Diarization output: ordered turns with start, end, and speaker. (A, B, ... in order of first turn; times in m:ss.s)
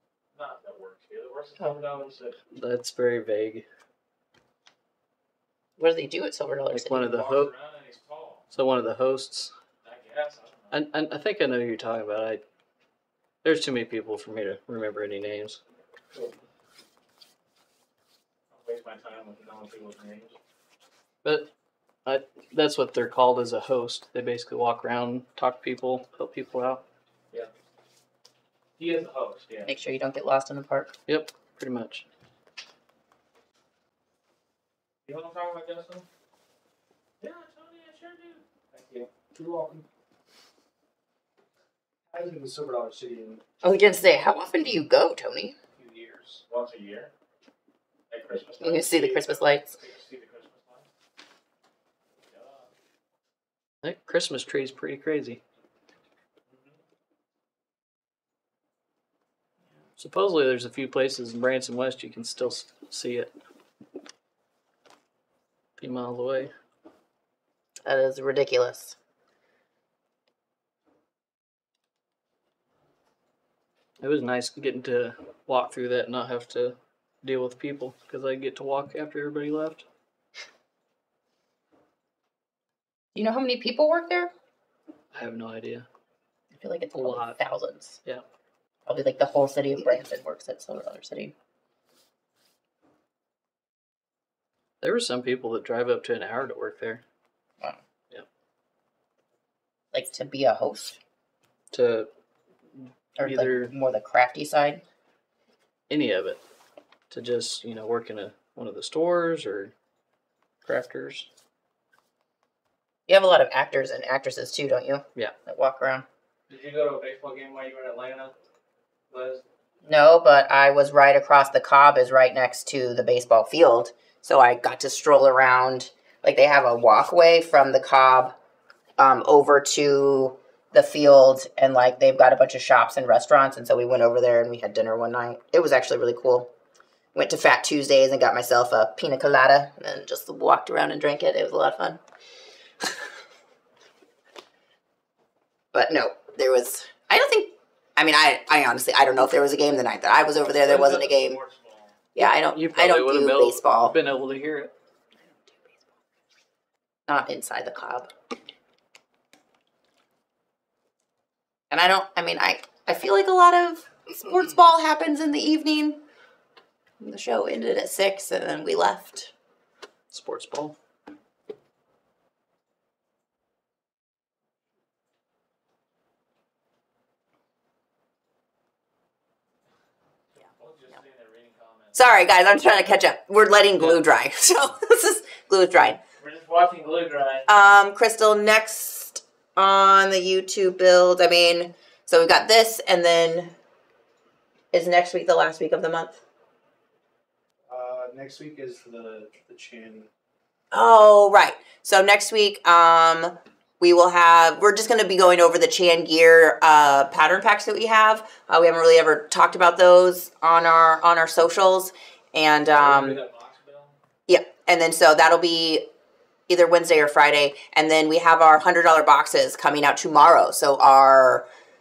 0:00.4-0:02.4 A
0:02.5-0:03.6 B
0:05.8-0:07.1 C
0:06.7-0:07.5 B
0:06.9-0:08.4 A
0:08.5-0:09.5 B
0:09.8-0:10.8 A
0:10.7-0:12.4 B
0:13.4-0:15.6 B
0:18.5-0:20.4 A
0:21.2-0:21.5 B
0:22.0-0:26.8 B
0:28.8-0:29.7 A
0:29.6-0:30.9 C
0:31.1-0:32.0 B
0:35.0-0:36.0 A
0:37.2-0:39.1 A
0:39.4-0:39.8 D
0:42.1-0:43.4 D
0:43.6-0:45.5 C
0:45.8-0:46.4 D
0:46.5-0:47.1 A
0:48.1-0:50.8 A
0:48.6-0:49.7 C
0:52.3-0:52.7 A
0:53.8-0:55.4 B
0:56.5-0:56.8 A
1:00.0-1:03.3 B
1:05.8-1:06.5 B
1:07.8-1:09.0 C
1:14.0-1:19.8 B
1:23.1-1:24.3 C
1:25.1-1:25.9 B
1:26.5-1:28.0 C
1:27.0-1:27.4 B
1:28.8-1:31.3 C
1:34.8-1:37.0 B
1:39.9-1:41.0 C
1:41.7-1:42.1 B
1:42.7-1:43.7 B
1:43.2-1:44.8 C
1:45.9-1:46.4 B
1:47.1-1:49.7 B
1:50.6-1:51.3 B
1:53.1-1:56.0 C
1:56.5-1:58.3 A
1:59.1-1:59.4 A
1:59.8-2:08.3 C
2:09.0-2:16.5 C
2:17.1-2:22.0 C
2:25.7-2:31.4 C
2:30.4-2:31.9 A
2:32.1-2:33.9 C
2:32.2-2:34.7 B
2:37.1-2:38.1 C
2:41.7-2:46.0 C
2:47.0-2:49.3 C
2:50.1-2:50.8 B
3:00.5-3:02.0 A
3:01.9-3:06.0 C
3:06.2-3:07.5 A
3:07.5-3:13.5 C
3:14.7-3:16.2 C
3:17.7-3:20.1 D
3:20.7-3:33.2 C
3:32.8-3:34.0 A
3:34.3-3:35.9 C
3:36.5-3:41.4 C